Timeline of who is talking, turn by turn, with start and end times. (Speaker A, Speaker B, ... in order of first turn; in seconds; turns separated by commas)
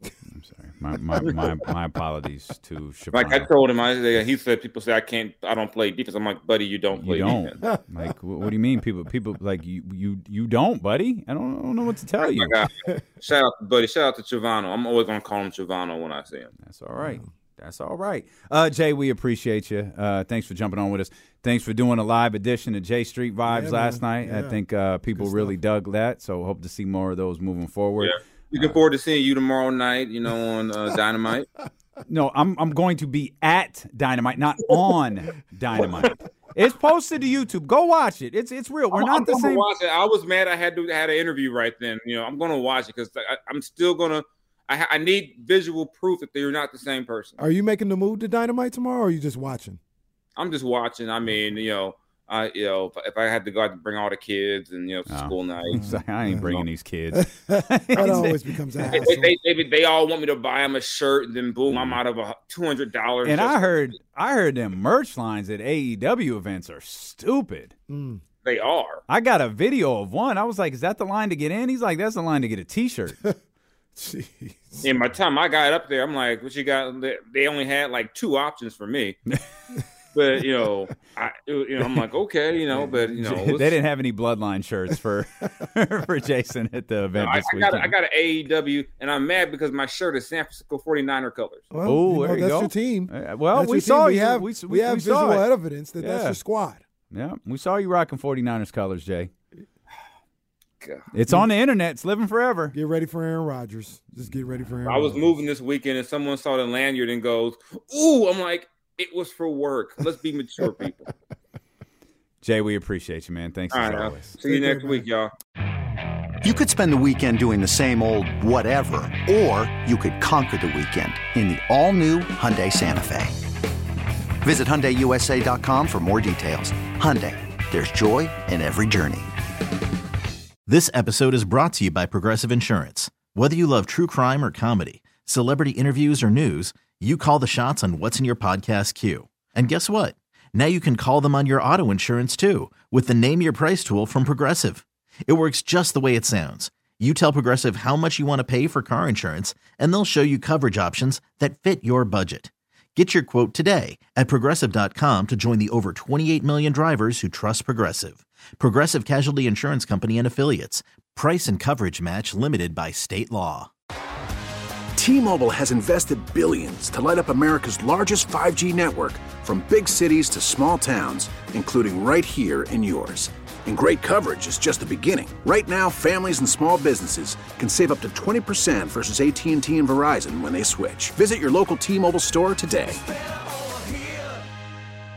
Speaker A: 0.3-3.5, Speaker B: 3.1-7.5, Speaker A: 6.9-12.6, Speaker B: 12.2-16.5, Speaker A: 16.6-28.8, Speaker C: 17.0-17.3, Speaker C: 23.4-24.6, Speaker C: 25.1-25.6, Speaker B: 28.0-31.5, Speaker A: 32.1-39.6, Speaker B: 38.9-47.4, Speaker C: 47.4-49.8, Speaker B: 50.4-55.8, Speaker A: 55.1-58.4, Speaker C: 55.7-59.3, Speaker B: 58.9-63.8, Speaker A: 61.7-62.0, Speaker A: 63.2-67.7, Speaker C: 67.9-68.2, Speaker B: 68.4-69.0, Speaker A: 69.1-73.2, Speaker C: 74.0-74.9, Speaker B: 74.8-79.2, Speaker B: 80.1-83.7, Speaker C: 83.2-83.5, Speaker A: 83.3-87.9, Speaker B: 87.2-91.6, Speaker C: 91.7-96.8, Speaker A: 91.8-95.5, Speaker A: 96.0-96.4, Speaker A: 97.1-99.3, Speaker A: 101.1-102.7, Speaker C: 102.7-105.2, Speaker A: 104.3-104.7, Speaker B: 104.8-111.1, Speaker A: 112.4-114.4, Speaker B: 113.7-115.3, Speaker C: 114.4-115.0, Speaker D: 116.4-123.4, Speaker D: 124.4-129.3, Speaker E: 130.7-163.7, Speaker F: 164.9-183.1